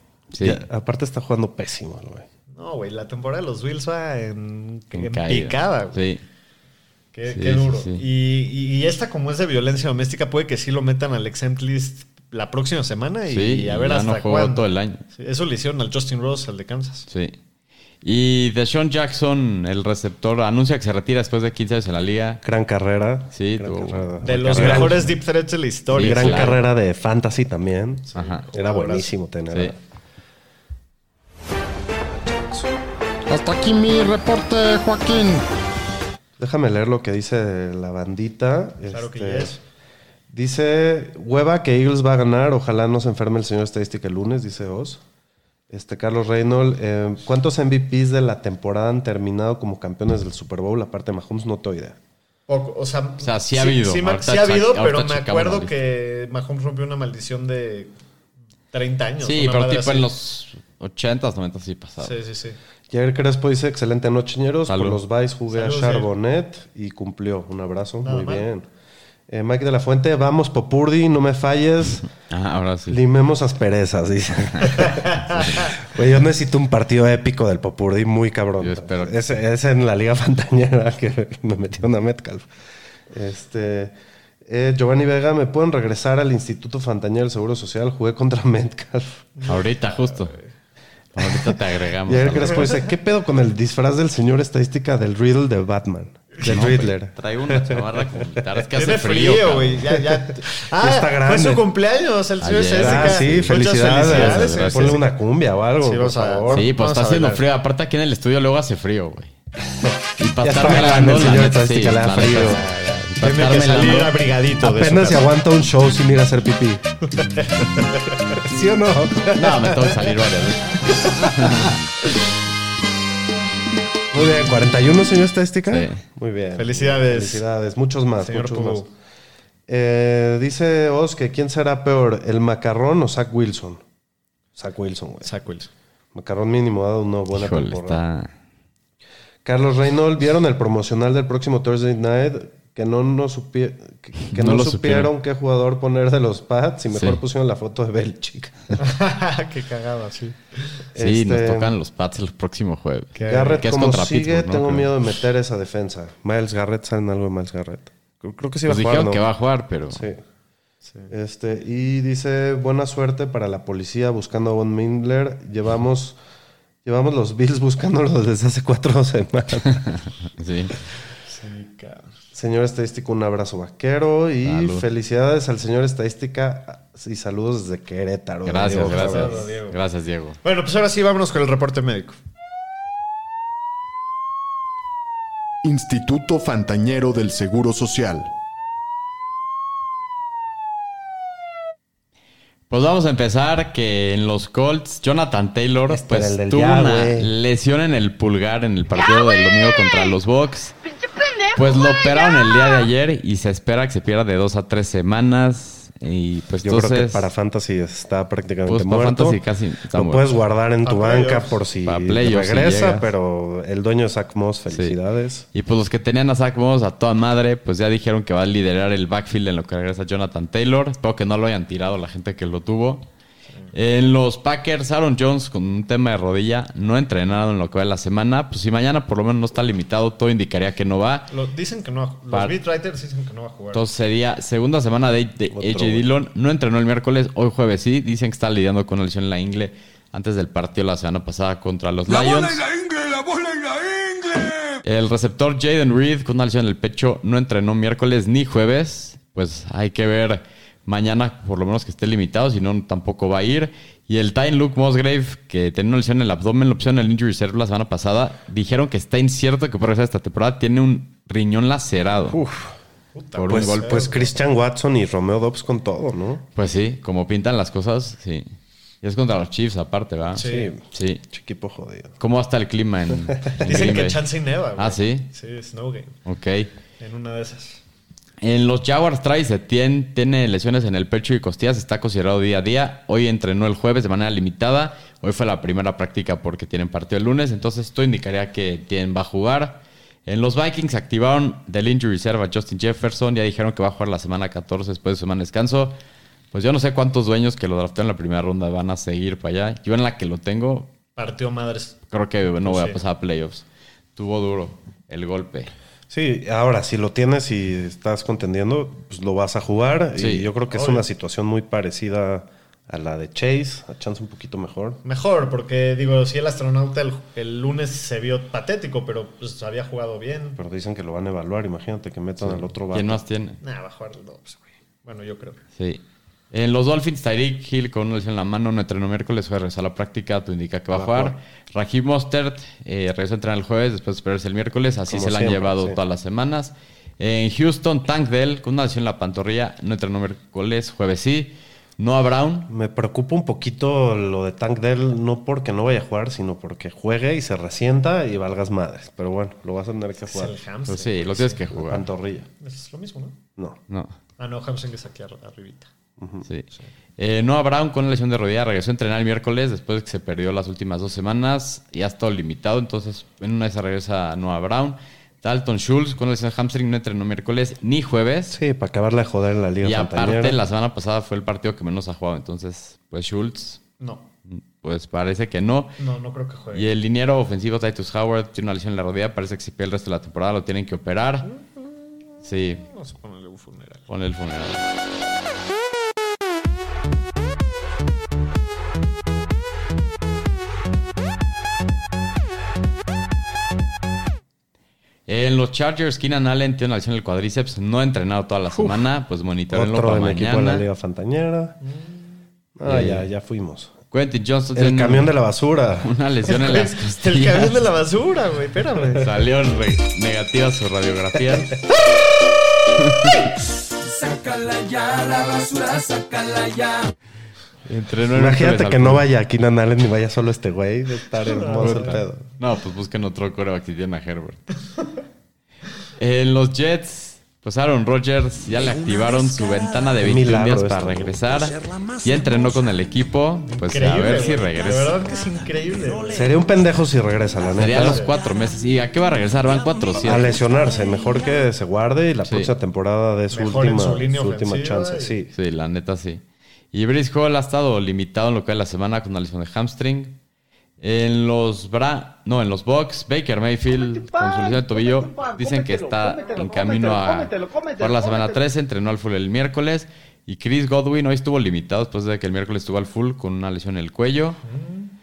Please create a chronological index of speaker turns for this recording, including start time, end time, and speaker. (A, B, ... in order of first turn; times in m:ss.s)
0:00.3-0:00.6 A
0:00.4-0:02.2 B
0:02.5-0:06.0 C
0:04.9-0:06.2 A
0:07.1-0:17.1 C
0:07.3-0:08.0 A
0:13.3-0:15.0 A
0:17.1-0:17.3 A
0:18.0-0:22.4 A
0:22.4-0:25.1 B
0:23.3-0:25.1 A
0:24.2-0:26.5 C
0:25.9-0:26.6 A
0:25.9-0:29.8 B
0:28.1-0:29.1 C
0:28.1-0:28.4 A
0:32.2-0:32.7 B
0:33.3-0:35.4 D
0:36.4-0:39.6 B
0:38.9-0:39.6 C
0:40.3-0:45.0 B
0:45.7-0:52.0 B
0:52.5-0:57.9 C
0:53.2-0:55.7 A
0:58.7-1:00.1 C
0:59.2-1:02.1 A
1:02.0-1:02.6 C
1:02.9-1:08.7 B
1:04.7-1:05.0 A
1:05.5-1:06.1 C
1:08.0-1:08.5 C
1:09.3-1:12.1 B
1:12.3-1:13.0 A
1:12.9-1:22.5 B
1:14.7-1:15.7 C
1:18.6-1:19.2 A
1:23.1-1:23.9 B
1:24.4-1:29.2 B
1:29.4-1:30.4 C
1:29.4-1:30.4 A
1:31.1-1:32.7 A
1:31.2-1:38.2 B
1:36.4-1:39.9 A
1:38.7-1:45.0 C
1:40.1-1:41.6 B
1:42.4-1:45.0 A
1:42.8-1:46.7 B
1:45.8-1:47.4 C
1:46.5-1:49.3 A
1:49.8-1:52.9 B
1:50.2-1:54.2 A
1:53.2-1:55.3 C
1:54.6-1:56.8 B
1:57.1-1:58.4 C
1:58.4-2:00.1 B
1:59.3-2:01.8 A
2:01.2-2:01.7 B
2:04.1-2:08.9 B
2:05.7-2:06.0 A
2:06.6-2:07.4 C
2:08.2-2:08.9 C
2:09.7-2:13.8 B
2:14.6-2:15.3 B
2:15.2-2:15.7 C
2:16.1-2:18.0 B
2:17.3-2:18.3 A
2:19.4-2:28.8 B
2:24.3-2:25.1 A
2:26.9-2:27.2 A
2:28.8-2:30.8 C
2:30.9-2:31.7 B
2:31.0-2:34.9 A
2:33.1-2:33.6 C
2:33.2-2:39.2 B
2:38.6-2:40.0 A
2:39.9-2:40.2 B
2:41.1-2:46.2 B
2:46.8-2:49.8 B
2:49.7-2:50.7 A
2:51.3-2:52.1 C
2:52.3-2:59.4 B
2:54.4-2:54.8 A
2:58.4-3:00.4 A
2:58.8-2:59.8 C
3:00.4-3:02.2 C
3:05.6-3:08.3 D
3:12.7-3:20.8 A
3:15.9-3:17.3 B
3:21.5-3:27.3 A
3:26.6-3:29.4 B
3:28.7-3:30.3 A
3:29.9-3:35.4 B
3:30.8-3:31.6 C
3:31.8-3:33.1 A
3:34.7-3:35.0 A
3:35.5-3:43.0 A
3:43.7-3:51.3 A
3:51.3-3:53.8 C
3:53.7-4:02.7 A
3:55.5-3:56.1 B
4:04.8-4:22.4 A
4:22.2-4:22.7 B
4:23.1-4:24.3 C
4:23.4-4:24.0 A
4:23.5-4:26.4 B
4:26.5-4:28.5 A
4:29.0-4:31.2 A
4:30.3-4:30.7 C
4:30.4-4:32.1 B
4:32.2-4:34.2 A
4:33.5-4:33.9 B
4:33.6-4:36.1 C
4:34.8-4:35.3 A
4:36.2-4:36.7 A
4:37.0-4:37.8 C
4:38.4-4:56.0 A
4:56.5-5:00.9 A
5:01.2-5:02.0 C
5:02.1-5:03.6 A
5:02.6-5:03.0 C
5:04.2-5:05.7 A
5:06.1-5:15.0 B
5:10.2-5:10.5 A
5:10.7-5:11.0 C
5:15.0-5:20.6 C
5:20.6-5:23.2 B
5:22.4-5:23.6 A
5:23.6-5:25.6 C
5:26.5-5:42.7 A
5:30.9-5:31.4 B
5:35.1-5:36.0 B
5:42.7-5:50.6 B
5:50.2-5:51.6 C
5:50.9-5:52.0 A
5:51.7-5:52.5 B
5:52.6-5:53.4 C
5:53.9-5:54.1 A
5:54.4-5:55.9 C
5:56.2-5:56.4 B
5:57.2-6:08.6 A
6:08.5-6:10.6 B
6:09.8-6:13.8 A
6:14.0-6:14.2 C
6:14.5-6:15.9 A
6:16.0-6:16.9 C
6:16.7-6:21.5 A
6:21.4-6:24.1 C
6:22.4-6:22.8 A
6:24.1-6:24.8 A
6:35.3-6:40.8 A
6:39.7-6:41.8 B
6:41.8-6:42.2 C
6:42.8-6:43.9 B
6:42.8-6:43.3 A
6:44.1-6:45.3 A
6:44.7-6:46.1 B
6:46.0-6:47.9 A
6:46.5-6:49.4 C
6:49.1-6:51.8 A
6:53.0-6:53.4 A
6:54.1-6:57.1 E
6:57.8-6:59.2 A
6:58.3-7:02.4 B
7:01.5-7:02.2 C
7:01.8-7:04.7 A
7:06.2-7:15.2 A
7:10.2-7:11.5 B
7:13.7-7:16.6 C
7:16.3-7:18.3 B
7:17.7-7:20.6 A
7:17.9-7:18.3 C
7:20.2-7:25.5 B
7:22.4-7:22.7 A
7:23.5-7:25.4 C
7:25.5-7:26.4 A
7:26.9-7:30.4 A
7:31.0-7:44.6 A
7:44.7-7:45.1 C